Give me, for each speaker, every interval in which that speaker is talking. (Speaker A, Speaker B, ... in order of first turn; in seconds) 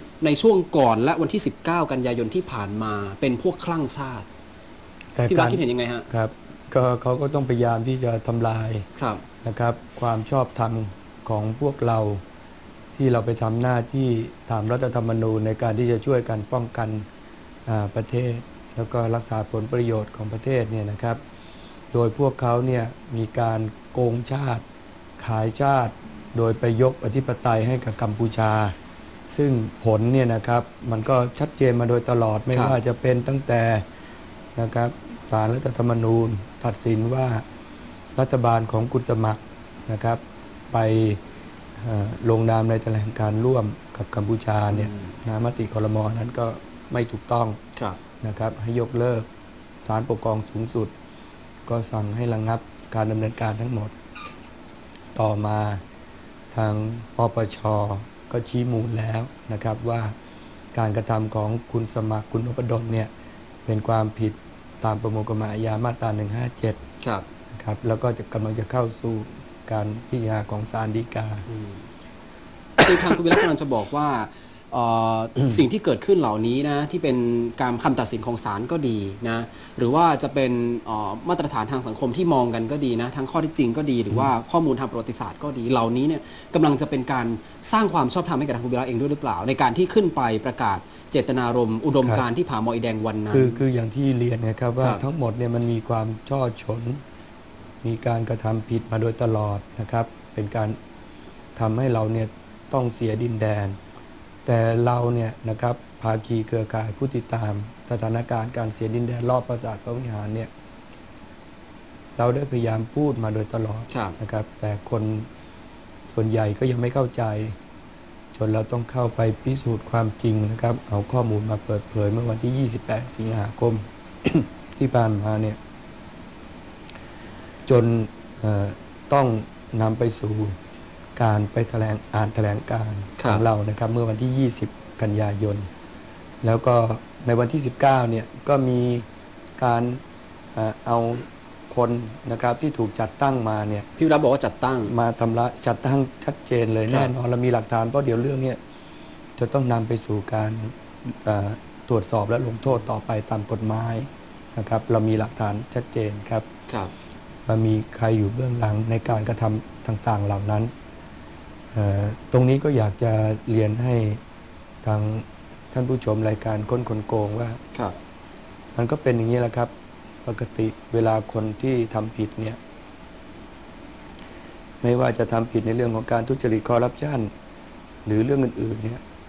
Speaker A: 0.2-4.2, 5.3-6.1, 9.0-9.2, 32.5-32.8, 44.7-45.1, 67.0-67.2, 71.5-71.8, 72.8-93.6, 113.9-114.2, 133.2-133.4, 144.0-144.9, 156.7-156.9
Speaker B: 5.1-8.9, 9.4-12.2, 12.9-17.1, 17.6-21.2, 21.9-24.6, 25.2-28.7, 29.3-33.8, 34.5-37.4, 38.1-41.2, 41.8-47.6, 48.2-49.3, 49.8-50.9, 51.6-53.9, 55.1-55.8, 56.5-60.1, 60.7-63.1, 63.6-66.8, 67.5-71.5, 93.3-97.0, 97.8-100.8, 101.5-103.8, 104.4-110.5, 112.2-115.3, 116.1-117.6, 118.3-125.6, 127.7-130.6, 131.2-135.7, 136.4-139.1, 139.6-140.0, 140.5-143.9, 144.8-148.6, 149.4-156.4, 157.4-160.7, 161.7-164.2, 164.8-167.6, 168.7-169.7, 170.2-172.6, 174.8-177.3, 178.1-179.0